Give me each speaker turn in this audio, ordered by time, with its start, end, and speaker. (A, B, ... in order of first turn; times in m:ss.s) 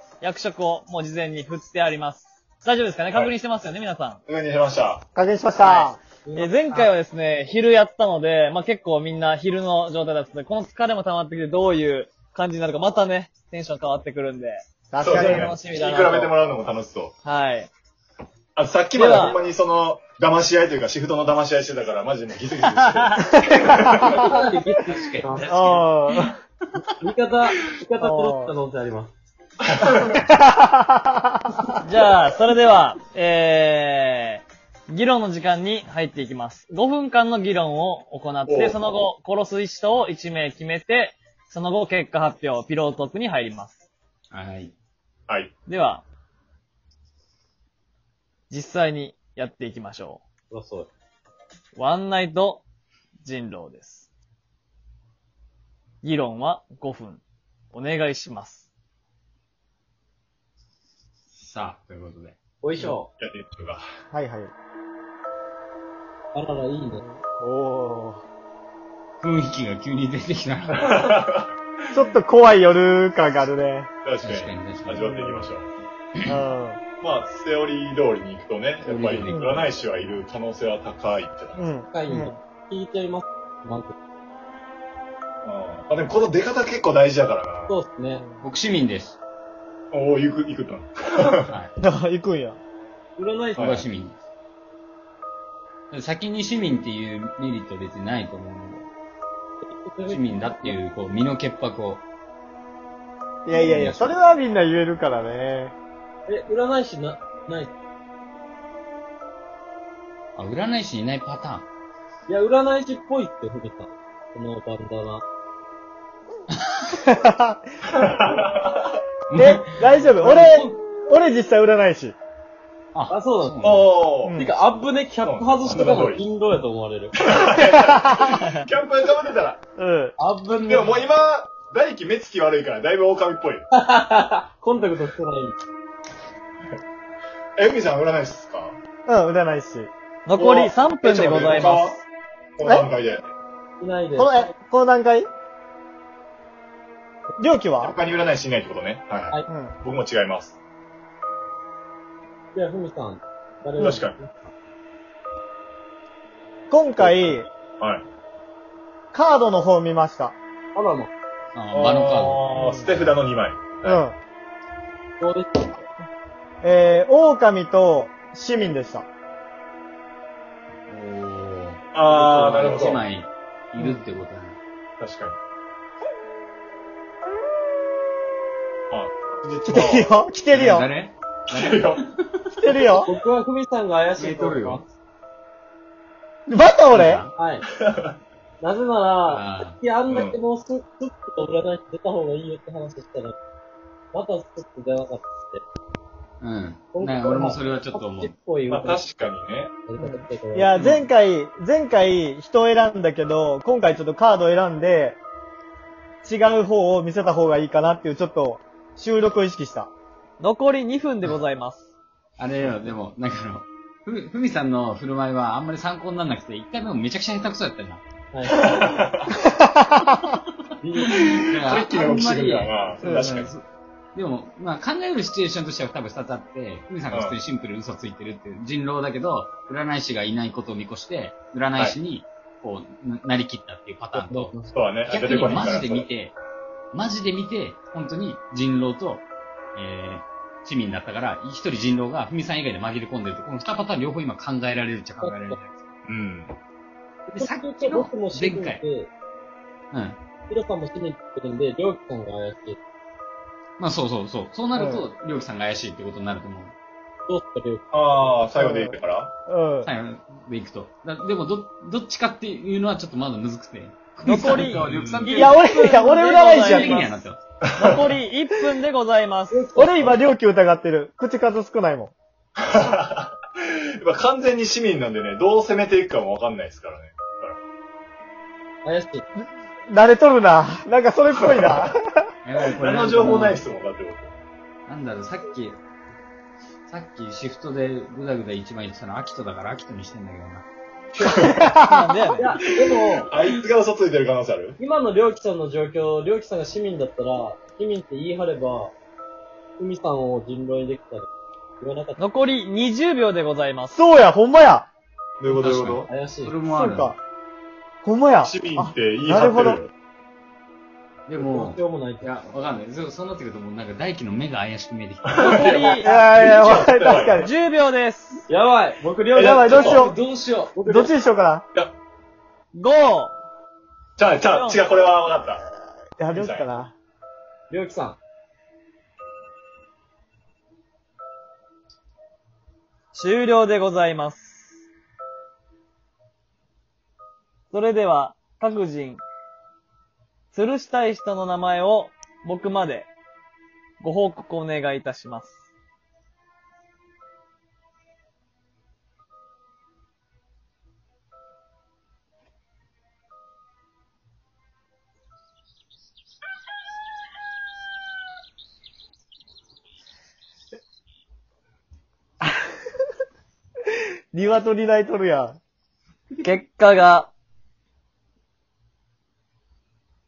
0:00.2-0:04.2 A
0:04.3-0:05.0 B
0:05.2-0:06.0 C
0:05.6-0:16.3 A
0:06.3-0:06.8 D
0:14.9-0:15.5 C
0:15.0-0:17.1 B
0:17.2-0:17.7 A
0:18.6-0:24.3 B
0:18.9-0:19.4 A
0:22.9-0:23.2 A
0:23.3-0:24.1 C
0:24.1-0:25.8 D
0:24.9-0:25.4 E
0:25.4-0:26.4 C
0:27.0-0:29.1 D
0:28.0-0:28.5 C
0:29.7-0:30.0 B
0:30.0-0:31.6 C
0:31.8-0:43.8 A
0:38.5-0:38.8 B
0:44.3-0:44.7 E
0:45.7-0:46.0 A
0:48.5-0:50.2 A
0:50.5-0:50.9 D
0:51.8-0:52.6 A
0:53.2-0:54.1 A
0:56.0-0:58.7 A
1:01.3-1:02.4 E
1:02.6-1:03.1 D
1:03.2-1:03.8 B
1:04.1-1:04.5 C
1:06.3-1:07.0 D
1:06.9-1:08.2 C
1:09.2-1:10.9 E
1:10.8-1:11.5 B
1:11.9-1:13.9 C
1:14.0-1:15.7 B
1:14.2-1:15.5 E
1:16.3-1:16.8 C
1:17.0-1:21.8 B
1:18.8-1:20.2 E
1:19.3-1:19.6 C
1:21.6-1:22.3 C
1:21.8-1:23.9 D
1:25.4-1:27.7 B
1:27.7-1:28.2 D
1:28.2-1:28.4 C
1:28.4-1:29.2 E
1:29.9-1:31.5 B
1:31.8-1:32.6 C
1:33.2-1:33.8 D
1:33.6-1:33.8 B
1:33.6-1:34.2 E
1:35.9-1:38.9 E
1:39.6-1:40.8 D
1:40.1-1:42.0 E
1:43.5-1:45.8 C
1:43.5-1:43.8 D
1:43.7-1:44.2 E
1:46.3-1:47.7 D
1:50.4-1:51.7 E
1:52.3-1:55.2 D
1:57.0-1:57.6 C
1:57.9-1:59.0 B
1:59.3-1:59.8 E
1:59.4-2:02.2 C
2:00.2-2:00.7 D
2:02.9-2:04.0 E
2:03.1-2:03.8 D
2:03.6-2:04.5 B
2:04.2-2:04.5 C
2:04.4-2:07.2 D
2:05.2-2:06.2 B
2:07.2-2:09.6 B
2:07.6-2:08.2 C
2:08.3-2:08.6 A
2:09.8-2:10.2 C
2:10.2-2:11.1 D
2:10.7-2:13.6 B
2:13.7-2:15.6 D
2:17.6-2:18.8 B
2:19.1-2:19.9 C
2:20.3-2:22.0 A
2:20.4-2:22.0 B
2:22.6-2:23.2 B
2:22.6-2:22.9 C
2:23.8-2:24.5 D
2:24.2-2:25.3 C
2:27.4-2:28.0 C
2:27.8-2:30.6 B
2:29.5-2:29.8 C
2:32.5-2:34.5 D
2:33.8-2:34.2 B
2:36.7-2:37.5 C
2:37.0-2:37.4 D
2:37.8-2:38.0 B
2:39.1-2:40.4 C
2:40.8-2:41.1 D
2:41.6-2:42.4 E
2:41.7-2:44.0 B
2:42.5-2:43.0 C
2:43.8-2:44.2 C
2:45.2-2:45.8 D
2:46.6-2:49.1 C
2:50.9-2:54.6 E
2:52.0-2:53.0 B
2:52.1-2:53.0 D
2:55.0-2:55.4 B
2:58.9-3:00.1 B
2:59.6-3:00.9 C
3:00.5-3:02.9 E
3:01.5-3:02.0 B
3:02.6-3:03.1 C
3:03.0-3:04.9 D
3:04.2-3:04.8 E
3:06.5-3:07.2 C
3:06.9-3:07.3 E
3:07.4-3:07.6 D
3:07.8-3:08.2 B
3:08.6-3:13.4 D
3:09.3-3:09.8 E
3:10.1-3:10.4 B
3:14.1-3:15.6 D
3:16.4-3:18.3 E
3:16.9-3:19.0 D
3:18.7-3:19.8 B
3:19.8-3:20.8 D
3:20.0-3:25.2 C
3:20.8-3:21.1 E
3:26.2-3:29.9 C
3:30.4-3:31.9 A
3:32.4-3:38.0 E
3:38.3-3:38.6 D
3:38.5-3:39.3 B
3:39.5-3:40.3 C
3:40.8-3:41.2 D
3:41.0-3:54.5 E
3:41.1-3:43.5 B
3:47.1-3:47.4 B
3:54.1-3:55.0 D
3:54.7-3:56.1 B
3:55.1-3:56.4 E
3:56.9-4:05.8 E
4:05.2-4:05.6 D
4:06.1-4:06.6 B
4:07.3-4:09.1 D
4:07.4-4:08.8 E
4:09.9-4:10.2 E
4:10.5-4:12.8 D
4:13.8-4:16.8 E
4:14.7-4:15.1 C
4:17.3-4:18.5 D
4:17.9-4:19.3 B
4:18.5-4:18.9 C
4:19.5-4:19.9 C
4:19.8-4:25.7 E
4:24.2-4:27.1 A
4:24.9-4:25.3 B
4:25.3-4:27.0 C
4:26.3-4:27.0 D
4:26.5-4:27.4 E
4:27.7-4:28.1 B
4:27.8-4:29.6 A
4:29.5-4:30.2 D
4:29.8-4:32.1 C
4:32.6-4:37.6 B
4:38.8-4:39.2 D
4:39.9-4:42.2 C
4:41.5-4:41.9 B
4:42.4-4:43.6 E
4:42.8-4:44.3 B
4:44.9-4:45.8 E
4:46.9-4:50.7 E
4:51.2-4:51.7 B
4:51.3-4:52.3 C
4:51.8-4:52.4 A
4:52.4-4:53.4 D
4:52.8-4:54.8 B
4:54.8-4:58.9 D
4:59.8-5:01.3 D
5:01.8-5:02.2 D
5:02.2-5:04.0 A
5:04.0-5:04.9 C
5:05.4-5:06.1 B
5:05.5-5:07.2 E
5:06.1-5:06.6 D
5:06.7-5:07.2 C
5:08.0-5:09.8 C
5:08.4-5:09.9 B
5:11.3-5:15.8 E
5:11.4-5:12.3 D
5:15.3-5:17.5 B
5:15.4-5:16.1 A
5:16.0-5:17.5 C
5:17.3-5:18.4 A
5:18.5-5:21.1 D
5:19.4-5:20.2 C
5:19.4-5:20.0 B
5:20.8-5:21.6 C
5:22.7-5:23.4 A
5:24.2-5:25.6 B
5:24.5-5:25.1 A
5:26.2-5:26.9 C
5:26.4-5:26.7 B
5:27.7-5:28.2 D
5:33.1-5:34.8 A
5:37.7-5:39.2 A
5:40.5-5:43.1 A
5:44.0-5:45.7 A
6:04.3-6:05.6 C
6:06.4-6:07.3 A